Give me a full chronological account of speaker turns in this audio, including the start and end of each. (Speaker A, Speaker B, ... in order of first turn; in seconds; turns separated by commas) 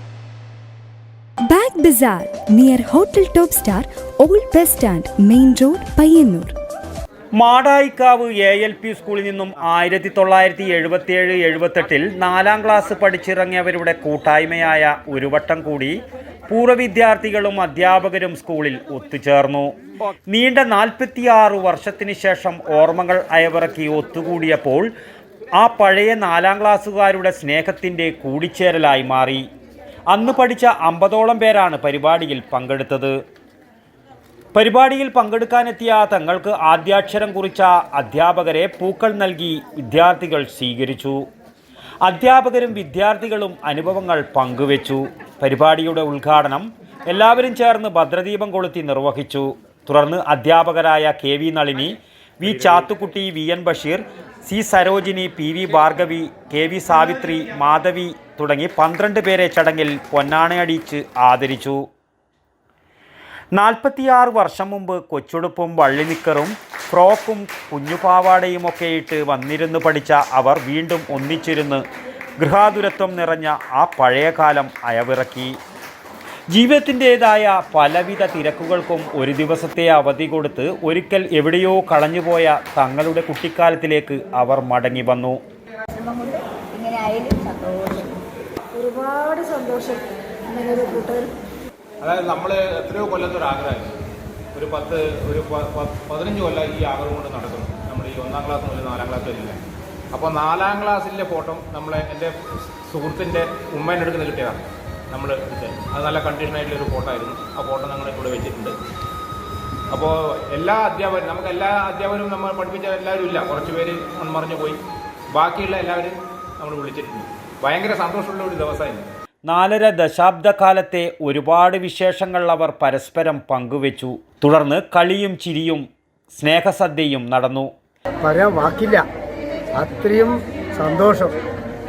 Speaker A: 1.4-6.5, Speaker B: 7.3-19.7, Speaker B: 20.3-24.9, Speaker B: 25.6-29.4, Speaker B: 30.1-33.1, Speaker B: 34.5-41.2, Speaker B: 42.0-61.8, Speaker B: 63.5-71.8, Speaker B: 72.4-75.5, Speaker B: 76.5-85.4, Speaker C: 85.9-88.2, Speaker D: 88.8-91.3, Speaker E: 92.0-94.0, Speaker E: 94.5-99.6, Speaker E: 100.1-108.8, Speaker E: 109.9-114.8, Speaker E: 115.3-119.0, Speaker B: 119.5-127.7, Speaker F: 128.2-129.0, Speaker F: 129.8-131.3